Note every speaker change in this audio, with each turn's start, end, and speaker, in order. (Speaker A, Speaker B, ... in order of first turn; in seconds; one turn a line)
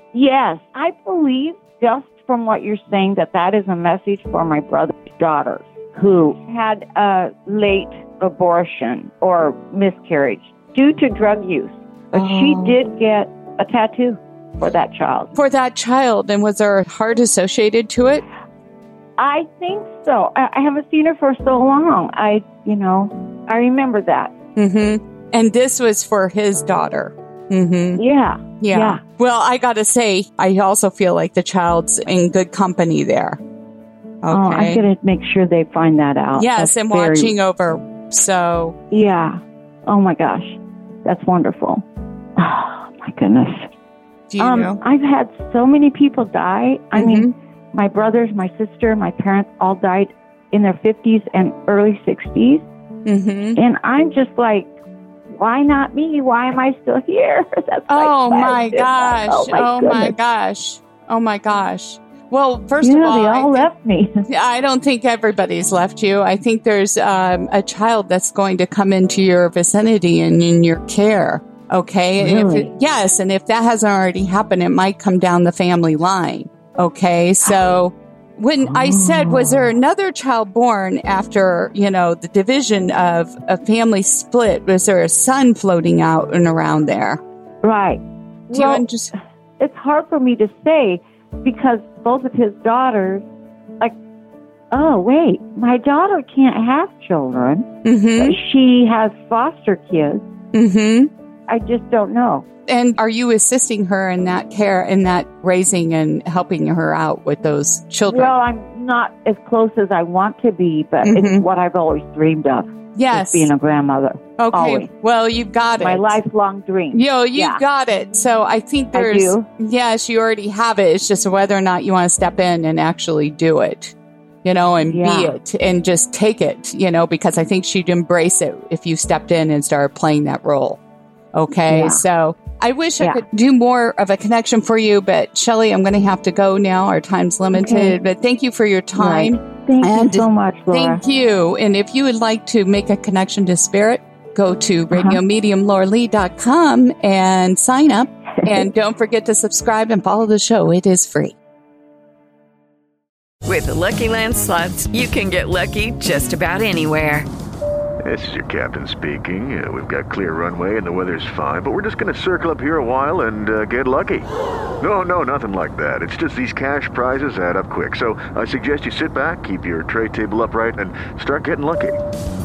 Speaker A: 0.1-15.3
Speaker B: 12.1-12.8
Speaker B: 15.3-18.2
Speaker A: 19.2-24.3
Speaker B: 24.6-28.0
Speaker A: 28.0-29.0
Speaker B: 28.6-33.4
Speaker B: 34.2-34.8
Speaker A: 34.3-37.4
Speaker B: 36.4-38.8
Speaker A: 38.9-41.9
Speaker A: 42.4-43.7
Speaker B: 44.3-44.8
Speaker A: 44.4-52.7
Speaker B: 47.0-47.3
Speaker B: 53.1-53.6
Speaker A: 53.6-54.7
Speaker A: 55.3-60.2
Speaker B: 57.9-63.7
Speaker A: 62.8-64.2
Speaker B: 64.3-87.2
Speaker A: 72.2-72.7
Speaker A: 78.7-79.7
Speaker A: 87.6-88.9
Speaker B: 88.5-89.1
Speaker A: 89.6-93.2
Speaker A: 94.7-100.2
Speaker B: 97.8-98.4
Speaker B: 100.5-101.1
Speaker A: 101.5-102.5
Speaker B: 102.7-108.3
Speaker A: 108.1-114.9
Speaker B: 111.0-111.5
Speaker B: 113.0-113.5
Speaker B: 114.4-116.2
Speaker A: 115.8-117.6
Speaker B: 116.9-130.8
Speaker A: 118.9-119.5
Speaker A: 124.8-125.4
Speaker B: 131.3-151.4
Speaker A: 131.7-132.0
Speaker A: 137.5-138.0
Speaker A: 139.0-141.0
Speaker A: 144.9-145.2
Speaker C: 153.4-157.3
Speaker D: 158.0-172.0